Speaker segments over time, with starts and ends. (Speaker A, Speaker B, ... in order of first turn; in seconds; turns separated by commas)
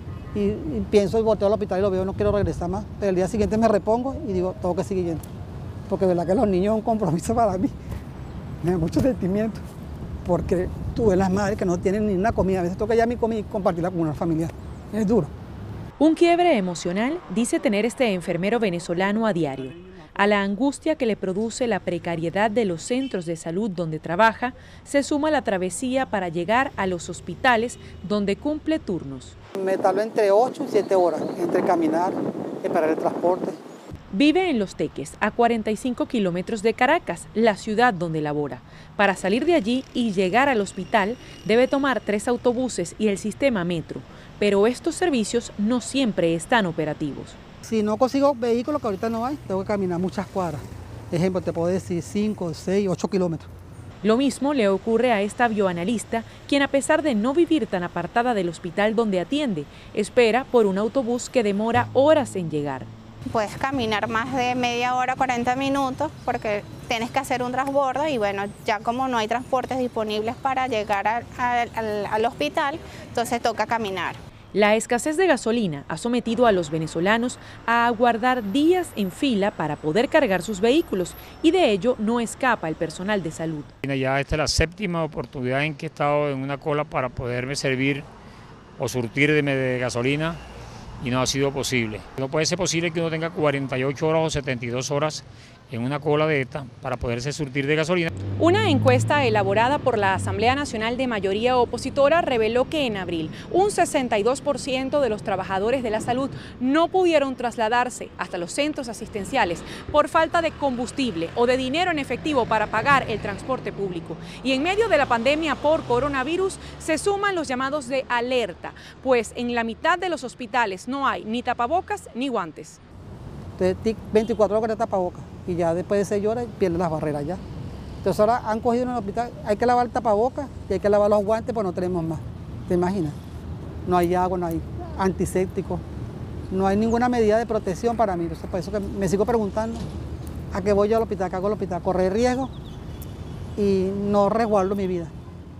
Speaker A: 0.3-5.2, Speaker A: 5.9-7.7, Speaker A: 8.6-9.6, Speaker A: 10.2-15.3, Speaker B: 16.0-29.4, Speaker A: 29.6-33.6, Speaker B: 34.1-47.4, Speaker A: 47.6-53.5, Speaker B: 54.0-62.9, Speaker C: 63.3-74.2, Speaker B: 74.5-83.7, Speaker D: 83.8-88.1, Speaker D: 88.8-90.4, Speaker D: 91.0-98.1, Speaker B: 98.4-122.8, Speaker A: 123.6-127.4, Speaker A: 128.0-133.2, Speaker A: 133.9-135.8, Speaker A: 136.5-139.9, Speaker A: 140.5-142.5, Speaker A: 143.6-145.1